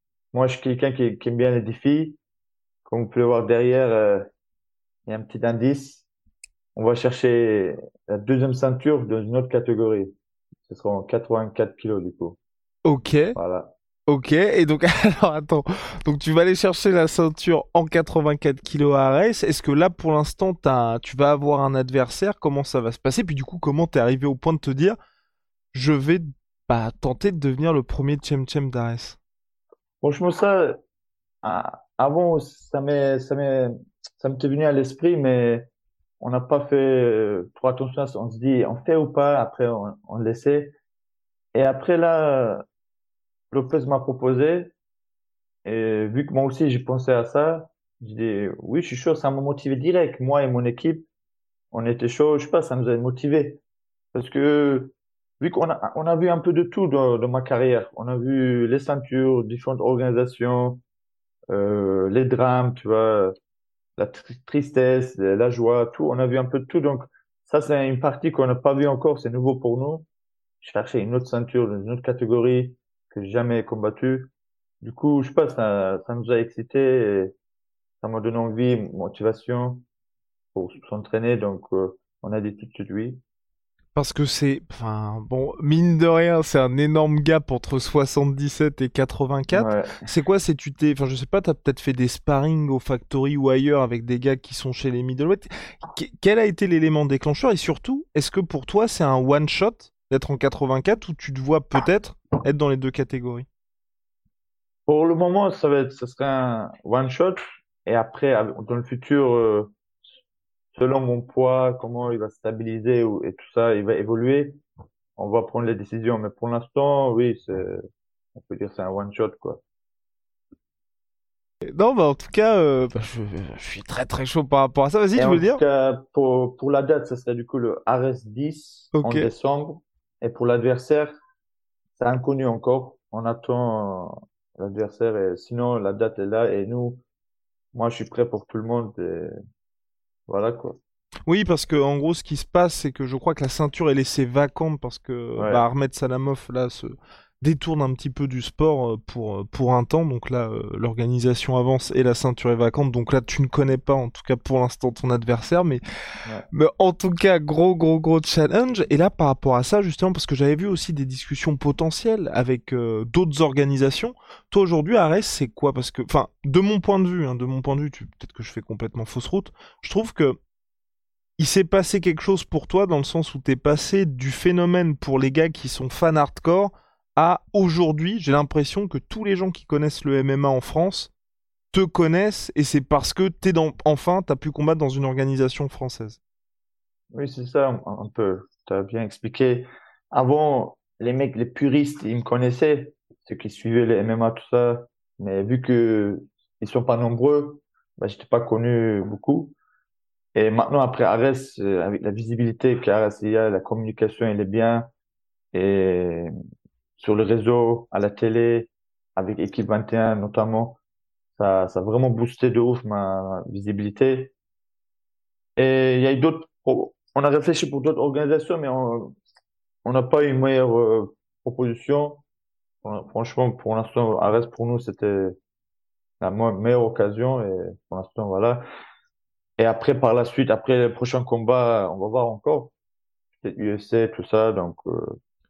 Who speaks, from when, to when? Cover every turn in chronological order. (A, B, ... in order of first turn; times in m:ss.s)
0:00.3-0:02.2 A
0:02.9-0:04.3 A
0:05.1-0:06.1 A
0:06.8-0:10.1 A
0:10.7-0:12.4 A
0:12.8-0:13.4 B
0:13.4-0:13.7 A
0:14.1-0:25.0 B
0:25.7-0:29.2 B
0:30.0-0:30.8 A
0:31.4-0:35.7 A
0:36.2-0:40.8 A
0:41.5-0:42.6 A
0:43.5-0:44.7 A
0:45.6-0:51.1 A
0:51.7-0:53.6 A
0:54.1-1:00.8 A
1:01.5-1:03.3 A
1:04.0-1:10.1 A
1:10.6-1:14.3 A
1:14.8-1:17.4 A
1:18.0-1:19.9 A
1:20.5-1:23.2 A
1:24.0-1:43.5 B
1:29.5-1:30.1 A
1:44.9-1:49.7 A
1:50.7-1:54.6 A
1:55.2-1:57.8 A
1:58.4-1:59.6 A
2:01.6-2:05.6 B
2:05.2-2:11.1 A
2:08.9-2:09.3 B
2:12.0-2:17.0 A
2:17.7-2:19.3 A
2:20.3-2:20.8 A
2:21.3-2:35.8 B
2:25.4-2:25.6 A
2:36.5-2:50.4 B
2:51.4-3:01.1 B
3:01.7-3:06.2 B
3:07.1-3:19.6 A
3:20.4-3:24.9 A
3:25.5-3:26.3 A
3:27.0-3:30.8 A
3:31.4-3:34.3 A
3:35.6-3:39.2 A
3:39.8-3:42.2 A
3:42.8-3:45.4 A
3:46.2-3:48.6 A
3:49.6-3:52.7 A
3:53.4-3:55.2 A